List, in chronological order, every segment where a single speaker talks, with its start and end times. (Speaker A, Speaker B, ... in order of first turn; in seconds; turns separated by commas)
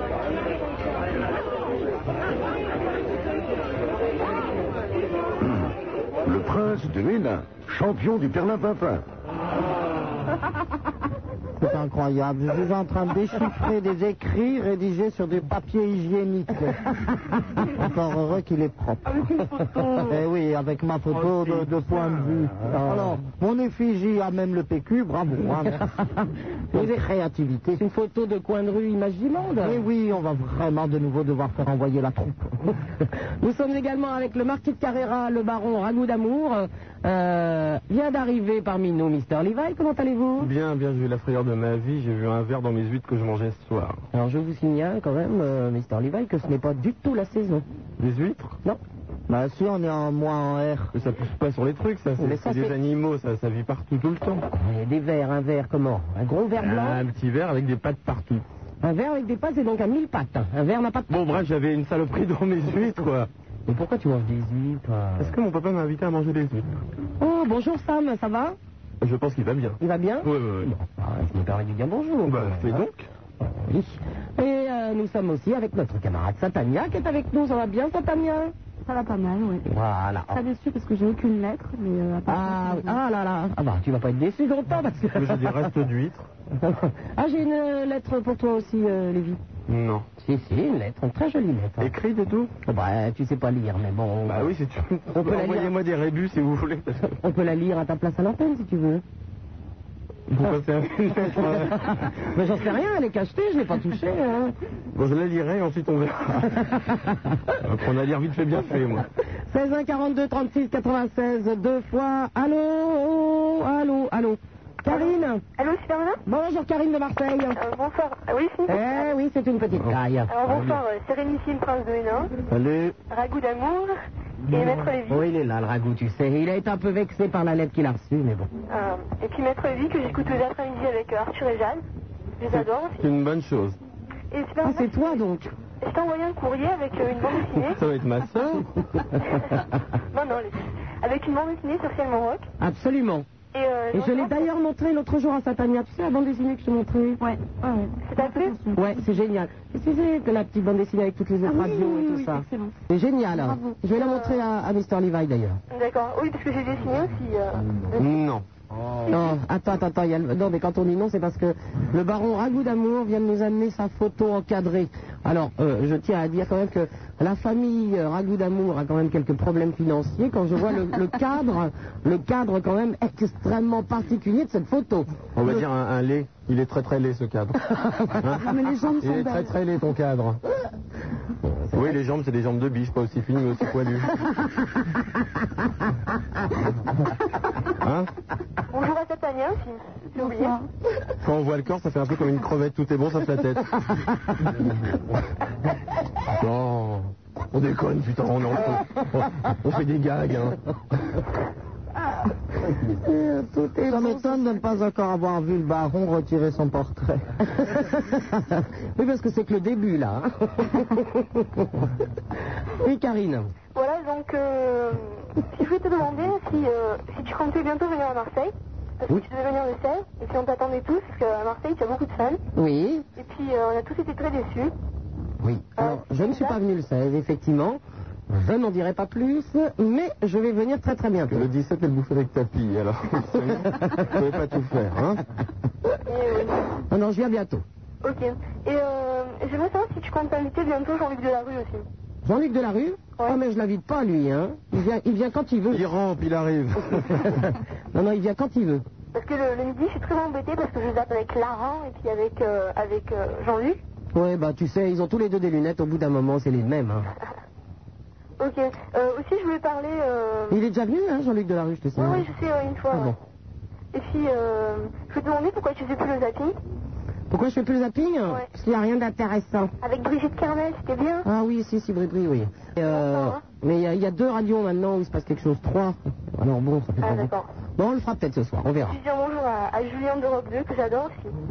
Speaker A: 5.4-5.7, Speaker A: 6.2-9.1, Speaker B: 11.6-19.4, Speaker C: 19.2-20.1, Speaker D: 19.3-20.1, Speaker B: 20.1-25.9, Speaker E: 21.1-22.1, Speaker C: 22.9-23.2, Speaker C: 26.0-27.1, Speaker B: 26.7-27.8, Speaker C: 27.8-29.8, Speaker B: 29.6-32.5, Speaker C: 33.4-40.5, Speaker E: 40.4-44.0, Speaker C: 44.1-47.7, Speaker E: 48.0-48.5, Speaker B: 49.3-50.9, Speaker E: 51.0-54.4, Speaker C: 52.2-52.7, Speaker C: 54.5-57.0, Speaker E: 56.6-58.4, Speaker C: 58.8-61.1, Speaker E: 61.1-63.3, Speaker C: 63.7-65.4, Speaker E: 65.2-66.7, Speaker C: 67.2-68.6, Speaker E: 69.0-70.7, Speaker C: 69.8-72.9, Speaker E: 72.2-73.1, Speaker C: 73.4-78.5, Speaker D: 78.9-79.7, Speaker C: 79.7-80.4, Speaker D: 80.3-83.0, Speaker C: 82.3-85.7, Speaker E: 85.2-86.3, Speaker C: 86.6-89.4, Speaker E: 89.7-90.1, Speaker C: 90.2-91.9, Speaker E: 91.8-92.5, Speaker C: 92.7-94.5, Speaker E: 94.3-97.1, Speaker C: 95.1-95.7, Speaker C: 97.1-99.0, Speaker E: 100.3-102.3, Speaker C: 101.2-104.5, Speaker E: 104.9-106.7, Speaker C: 106.5-107.2, Speaker E: 107.6-109.0, Speaker C: 109.5-115.4, Speaker F: 114.9-116.2, Speaker C: 116.3-117.6, Speaker F: 117.5-119.1, Speaker C: 118.7-120.3, Speaker F: 120.3-122.3, Speaker E: 120.5-120.8, Speaker B: 122.5-123.0, Speaker F: 123.1-123.9, Speaker F: 124.5-125.3, Speaker C: 125.1-128.5, Speaker F: 128.7-131.8, Speaker F: 132.4-133.1, Speaker E: 132.5-133.8, Speaker F: 134.3-135.2, Speaker C: 134.6-135.5, Speaker F: 135.8-137.8, Speaker E: 137.7-138.7, Speaker F: 140.1-142.5, Speaker C: 142.6-143.3, Speaker F: 143.5-144.5, Speaker C: 143.9-147.2, Speaker D: 147.2-149.0, Speaker F: 148.0-148.6, Speaker C: 148.8-155.6, Speaker D: 151.5-152.8, Speaker D: 153.3-153.8, Speaker F: 153.9-154.4, Speaker F: 155.7-158.2, Speaker E: 158.0-158.5, Speaker C: 159.1-175.6, Speaker E: 175.3-180.4, Speaker D: 178.4-179.6, Speaker C: 181.4-182.0, Speaker E: 181.7-184.2, Speaker E: 187.8-188.1, Speaker F: 188.7-190.6, Speaker D: 190.2-190.7, Speaker E: 191.2-193.8, Speaker E: 196.3-200.6, Speaker C: 203.0-204.7, Speaker B: 203.9-207.2, Speaker C: 207.5-211.9, Speaker C: 212.8-213.5, Speaker F: 213.8-222.4, Speaker C: 222.6-223.1, Speaker F: 223.2-224.7, Speaker C: 225.4-231.5, Speaker F: 225.8-226.6, Speaker E: 231.3-235.2, Speaker C: 233.3-234.2, Speaker F: 236.1-236.7, Speaker C: 236.9-237.6, Speaker F: 238.0-241.9, Speaker C: 242.2-245.8, Speaker E: 245.7-247.4, Speaker C: 247.1-248.8, Speaker F: 249.1-253.8, Speaker C: 254.1-257.1, Speaker F: 258.4-260.6, Speaker C: 260.5-262.3, Speaker F: 262.0-263.1, Speaker F: 263.9-266.6, Speaker C: 267.3-269.7, Speaker F: 269.8-271.3, Speaker C: 271.2-279.0, Speaker F: 272.8-273.4, Speaker F: 277.0-277.5, Speaker F: 278.9-281.4